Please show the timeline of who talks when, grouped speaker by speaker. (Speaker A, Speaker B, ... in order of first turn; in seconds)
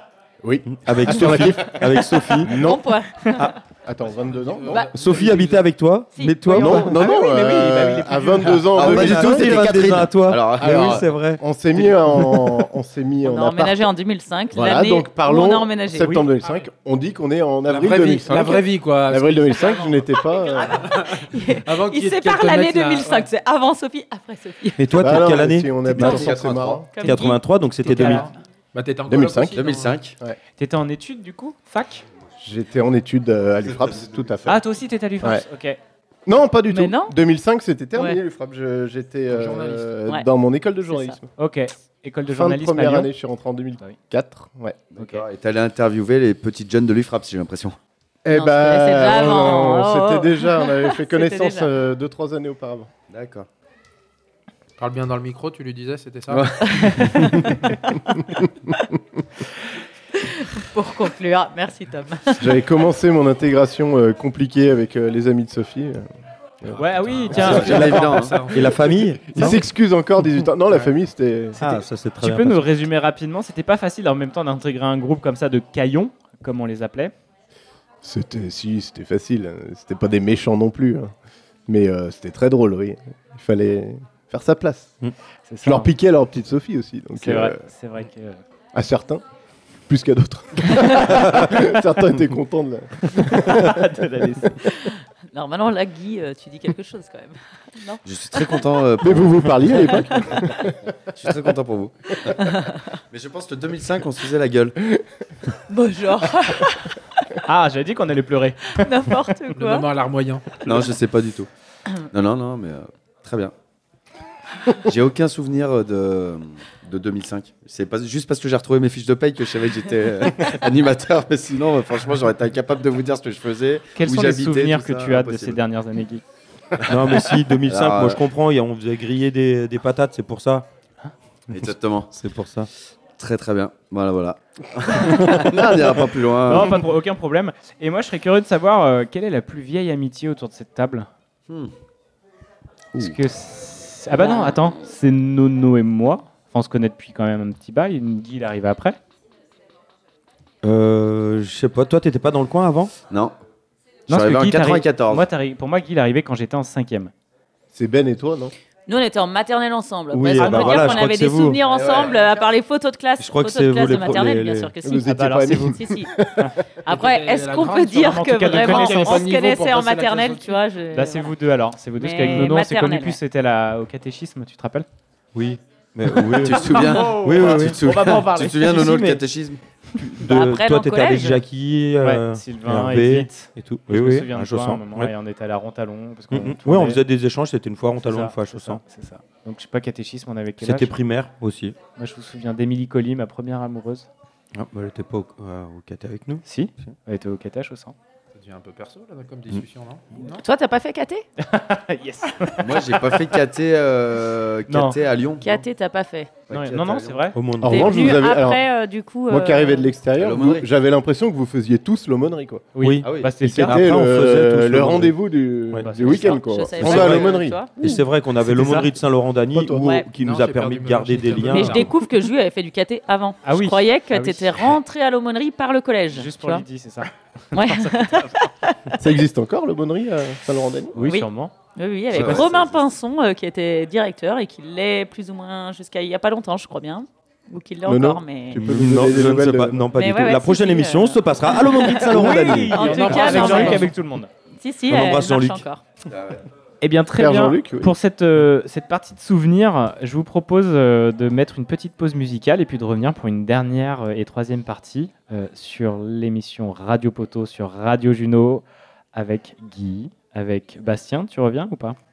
Speaker A: 0.4-2.8, 3.8-4.8, 6.5-13.9, 14.5-20.9, 25.0-26.9, 29.1-29.6, 32.4-34.6, 36.2-41.2, 42.3-44.8, 48.2-52.9, 62.4-66.0, 66.6-67.9, 69.3-71.6, 78.0-81.1, 81.7-85.0, 85.6-87.6, 88.7-89.2, 89.9-94.0, 99.0-100.7, 157.7-158.5, 164.8-166.5, 207.6-208.7, 209.3-212.7, 213.4-217.7, 219.5-219.9, 229.0-231.1, 237.8-239.9, 242.1-242.8, 247.2-247.9
Speaker B: 0.7-2.6, 4.9-6.9, 8.7-12.4, 24.8-26.3, 27.0-28.3, 67.6-69.6, 71.6-72.8, 126.9-130.7, 131.5-132.7, 150.6-152.9, 160.1-161.6, 163.2-164.7, 175.3-178.0, 178.6-179.3, 179.9-185.1, 186.3-188.8, 190.6-191.8, 194.5-196.9, 207.3-208.1, 212.8-215.1, 216.8-217.2, 217.8-221.9, 238.6-242.9, 244.9-245.7
Speaker C: 2.5-3.6, 6.1-7.0, 13.2-16.2, 21.3-25.1, 25.9-26.2, 26.9-28.3, 36.7-37.1, 40.8-41.2, 48.3-51.7, 56.6-57.5, 60.2-62.5, 94.6-98.7, 99.8-100.6, 102.2-103.0, 105.7-107.4, 108.8-109.9, 144.1-144.9, 158.9-166.1, 166.8-171.3, 172.0-173.2, 180.2-181.4, 200.3-201.2, 205.4-206.4, 207.6-209.9, 215.9-217.8, 219.8-220.1, 221.5-226.6, 227.5-228.9, 231.0-238.7, 239.9-243.9, 244.5-245.8
Speaker D: 4.0-5.6, 16.4-16.7, 17.7-23.3, 28.0-30.0, 39.3-40.0, 54.8-56.5, 67.1-69.0, 109.5-110.7, 161.6-162.4, 166.9-170.6, 198.3-200.4, 220.2-221.9, 242.8-243.9
Speaker E: 6.5-8.7, 15.9-16.2, 28.0-28.3, 30.6-32.0, 34.5-35.8, 41.4-43.1, 45.0-45.2, 66.7-68.3, 71.6-77.1, 85.5-85.9, 87.2-88.4, 93.1-94.6, 107.4-108.8, 124.0-126.2, 135.2-135.5, 136.5-141.1, 143.0-149.0, 154.1-157.1, 160.3-161.1, 165.0-165.8, 168.0-169.2, 170.9-174.9, 176.4-178.7, 182.0-187.0, 188.0-190.9, 191.9-194.1, 196.4-197.9, 201.4-203.1, 204.7-205.0, 206.5-207.4, 212.7-213.8, 215.8-216.4, 218.4-218.9, 223.4-224.8, 226.1-228.4, 230.9-231.5, 241.9-244.3, 246.8-262.0
Speaker F: 8.7-11.1, 25.9-26.9, 29.5-30.2, 33.7-34.3, 44.9-47.8, 53.1-53.5, 56.3-57.2, 67.3-68.5, 98.0-99.8, 101.1-102.5, 103.1-104.8, 110.6-111.5, 112.1-113.5, 114.8-125.6, 126.9-128.2, 131.5-132.1, 133.1-136.8, 153.1-153.3, 154.1-155.3, 176.2-179.6, 202.6-205.4, 210.2-210.7, 213.0-213.4, 232.1-232.9, 246.1-246.4